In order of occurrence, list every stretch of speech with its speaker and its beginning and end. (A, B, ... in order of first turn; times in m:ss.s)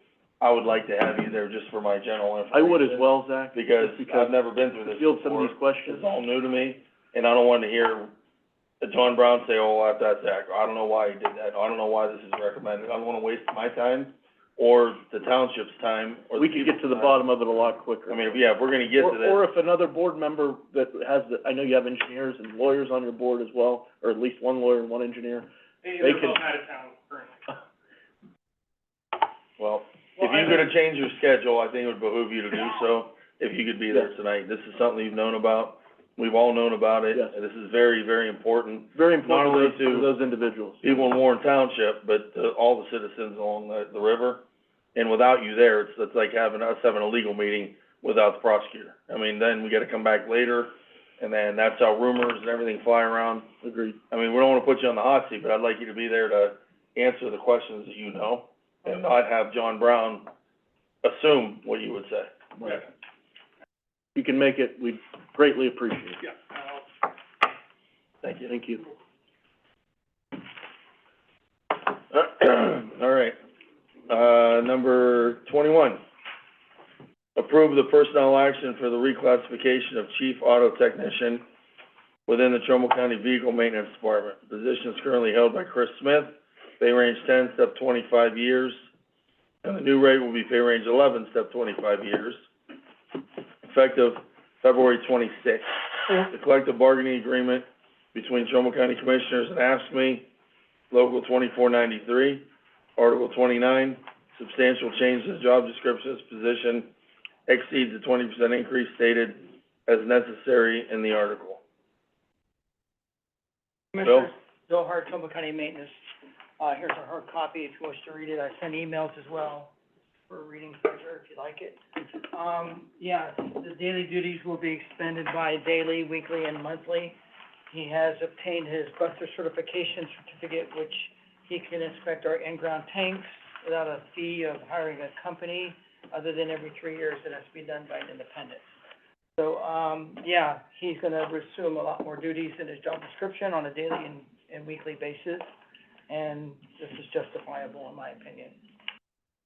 0:00.4-0:08.1 A
0:02.5-0:06.1 B
0:08.8-0:17.2 A
0:16.4-0:18.4 B
0:18.1-0:19.4 A
0:19.0-0:26.4 B
0:25.8-0:27.4 C
0:29.6-0:40.1 A
0:30.2-0:30.6 C
0:38.9-0:41.0 B
0:40.8-0:44.4 A
0:44.9-0:53.5 A
0:53.6-0:54.0 B
0:54.1-1:00.3 A
1:01.0-1:02.3 A
1:04.1-1:06.2 B
1:08.2-1:08.5 A
1:08.5-1:08.8 B
1:12.1-1:13.4 A
1:14.1-1:16.0 A
1:17.4-1:21.4 A
1:22.3-1:28.8 A
1:29.6-1:32.4 A
1:33.6-1:35.6 A
1:36.2-1:40.3 A
1:40.9-1:42.4 A
1:43.0-1:46.9 A
1:47.5-1:51.6 A
1:53.9-1:55.9 D
1:54.0-1:54.3 A
1:56.6-1:59.7 D
2:00.3-2:07.2 D
2:07.7-2:18.6 D
2:19.4-2:25.5 D
2:26.1-2:28.6 D